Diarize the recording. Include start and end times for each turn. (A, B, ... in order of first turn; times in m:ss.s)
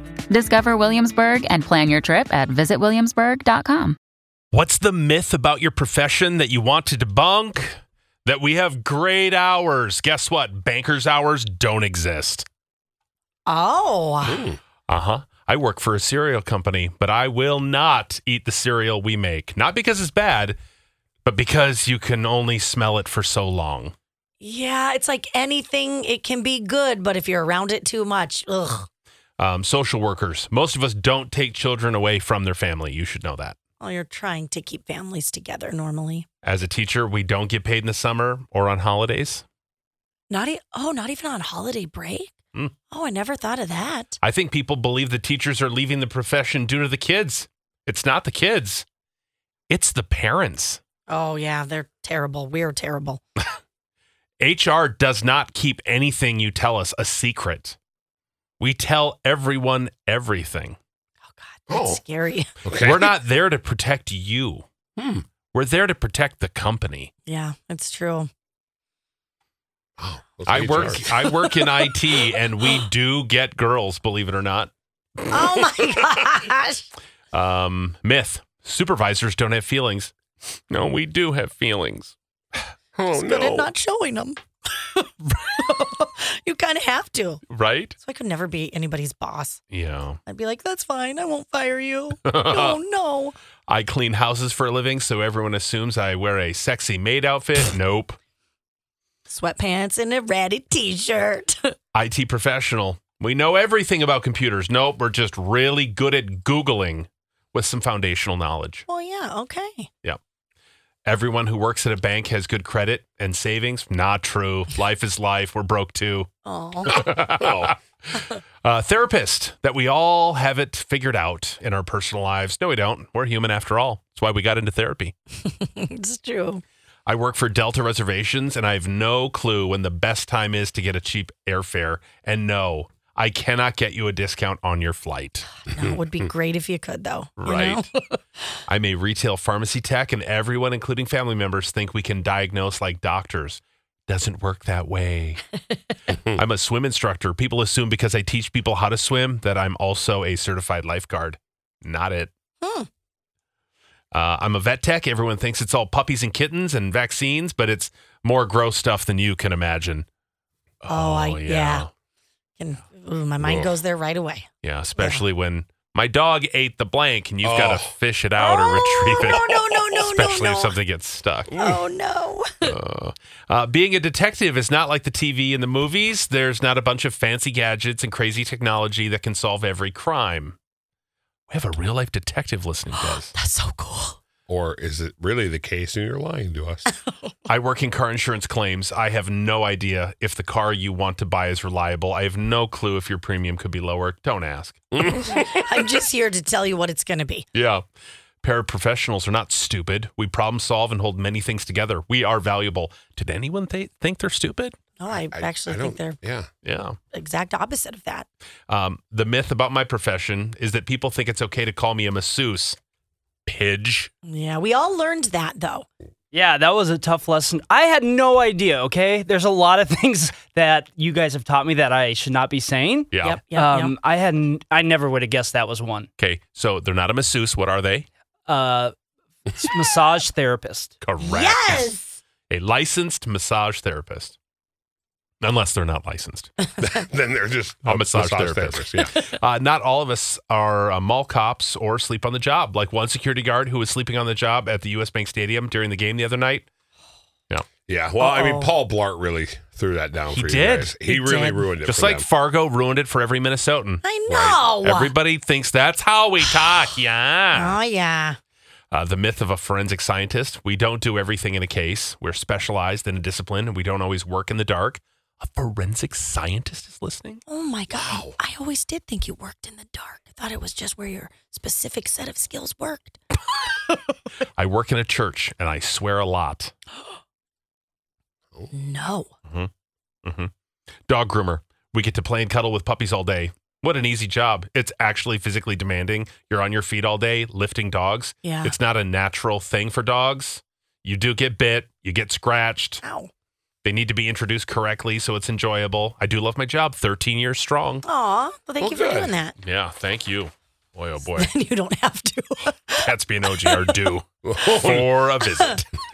0:00.3-0:04.0 A
0:04.5-0:12.4 B
0:13.4-0:14.4 C
0:14.2-0:14.6 D
0:14.9-0:20.6 B
0:21.2-0:23.9 B
0:24.4-0:28.9 C
0:29.4-0:33.6 B
0:33.8-0:36.2 C
0:36.4-0:39.4 B
0:40.3-0:42.3 C
0:42.9-0:44.2 C
0:44.2-0:48.8 B
0:49.7-0:50.8 B
0:51.1-0:53.2 C
0:54.4-0:57.8 B
0:58.6-1:00.8 B
1:01.3-1:02.5 C
1:01.7-1:02.0 D
1:02.6-1:03.1 D
1:02.8-1:04.6 B
1:05.0-1:05.2 D
1:05.5-1:07.1 B
1:07.2-1:08.3 C
1:10.0-1:11.5 D
1:10.5-1:14.7 B
1:11.2-1:11.9 C
1:15.3-1:16.9 C
1:17.3-1:20.1 B
1:20.7-1:22.2 B
1:22.9-1:23.7 D
1:23.1-1:27.4 C
1:27.5-1:28.0 B
1:28.0-1:29.6 C
1:29.7-1:30.2 B
1:30.2-1:33.4 C
1:32.2-1:32.8 B
1:33.7-1:38.2 B
1:39.3-1:41.7 C
1:41.9-1:48.8 B
1:48.9-1:49.9 C
1:51.0-1:56.3 B
1:56.4-1:57.0 C
1:56.9-2:05.1 B
1:56.9-1:57.7 D
2:05.4-2:06.6 C
2:07.0-2:15.5 B
2:15.7-2:18.2 C
2:15.8-2:16.0 D
2:17.4-2:17.8 B
2:18.7-2:25.5 B
2:26.3-2:32.3 B
2:32.6-2:32.9 C
2:34.1-2:40.1 B
2:40.8-2:41.9 B
2:40.9-2:41.9 C
2:42.6-2:45.2 C
2:43.4-2:43.7 D
2:44.6-2:51.6 B
2:47.4-2:47.9 D
2:48.4-2:50.8 C
2:49.3-2:49.8 D
2:51.5-2:52.8 C
2:52.6-3:00.6 B
3:01.5-3:03.3 B
3:02.9-3:04.2 C
3:04.5-3:06.9 D
3:07.5-3:15.2 B
3:14.9-3:15.7 D
3:15.3-3:17.5 C
3:17.5-3:17.8 B
3:18.4-3:24.8 B
3:25.0-3:26.2 C
3:25.1-3:26.5 D
3:26.6-3:27.0 B
3:27.1-3:28.3 C
3:28.7-3:32.8 B
3:33.5-3:34.1 B
3:34.2-3:35.9 C
3:36.3-3:46.1 E
3:43.1-3:43.4 B
3:43.1-3:43.9 C
3:46.2-3:48.1 B
3:48.5-3:48.9 E
3:49.5-3:51.0 E
3:51.0-3:52.0 B
3:51.2-3:52.2 C
3:52.5-3:54.4 B
3:55.4-3:56.5 B
3:56.8-3:59.2 D
3:57.8-4:06.7 B
4:07.9-4:12.3 D
4:08.2-4:08.7 C
4:10.3-4:14.0 B
4:11.1-4:11.7 C
4:14.0-4:15.2 C
4:14.3-4:14.7 D
4:14.8-4:17.8 B
4:17.5-4:18.4 C
4:18.9-4:27.4 B
4:27.5-4:33.2 C
4:27.9-4:28.4 D
4:34.5-4:36.7 B
4:38.7-4:39.3 C
4:40.2-4:40.5 B
4:41.1-4:53.0 B
4:48.4-4:48.8 C
4:53.0-4:53.3 C
4:53.8-4:58.0 B
4:58.0-4:59.6 C
4:58.8-4:59.3 D
4:59.6-5:01.5 B
5:01.2-5:03.1 C
5:02.9-5:05.8 B
5:03.6-5:04.1 C
5:04.4-5:05.2 D
5:05.5-5:05.8 C